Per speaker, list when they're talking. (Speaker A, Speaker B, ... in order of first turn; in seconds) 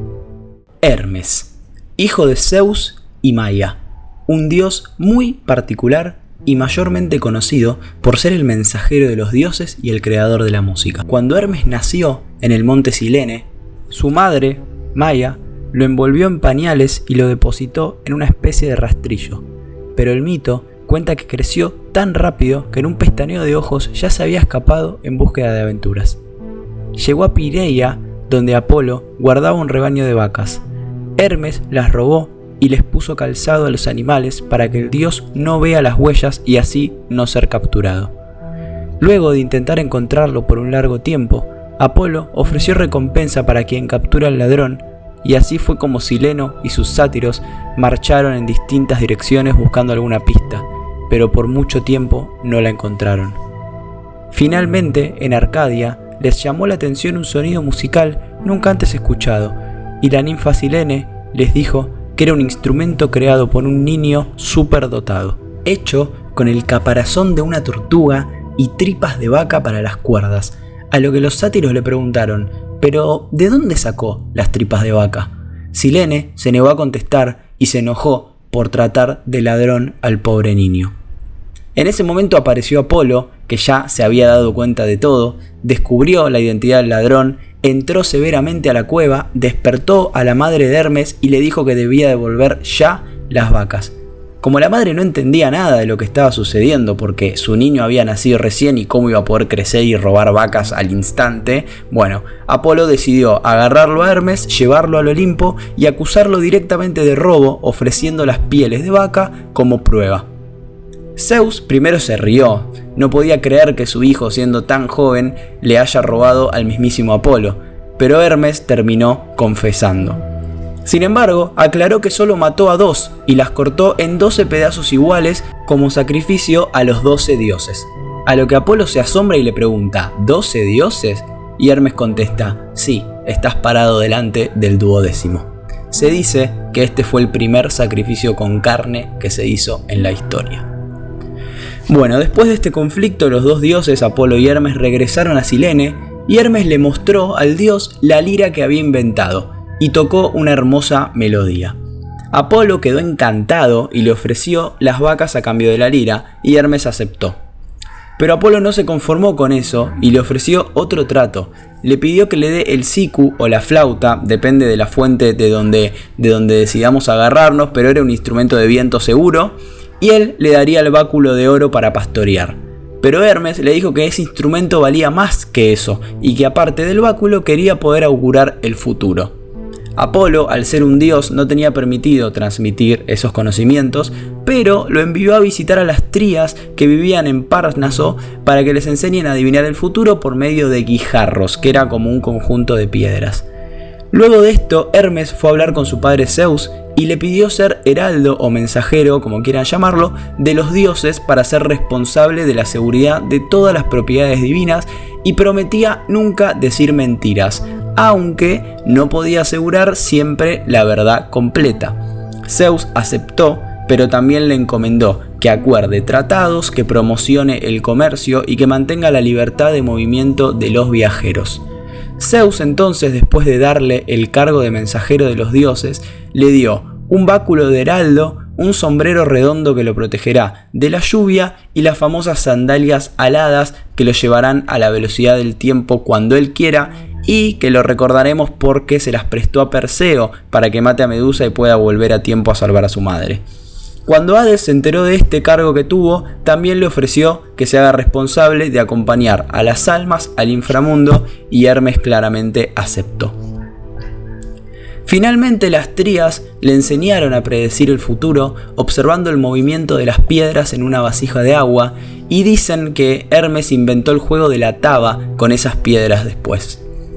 Speaker A: 0.8-19.4, 20.0-26.2, 27.0-30.6, 31.2-38.1, 39.0-53.4, 54.3-80.9, 81.8-110.3, 111.2-120.2, 120.8-140.7, 141.9-151.8, 152.3-157.4, 158.2-179.3, 180.0-193.5, 194.1-221.6, 222.2-243.4, 244.1-253.3, 255.1-266.8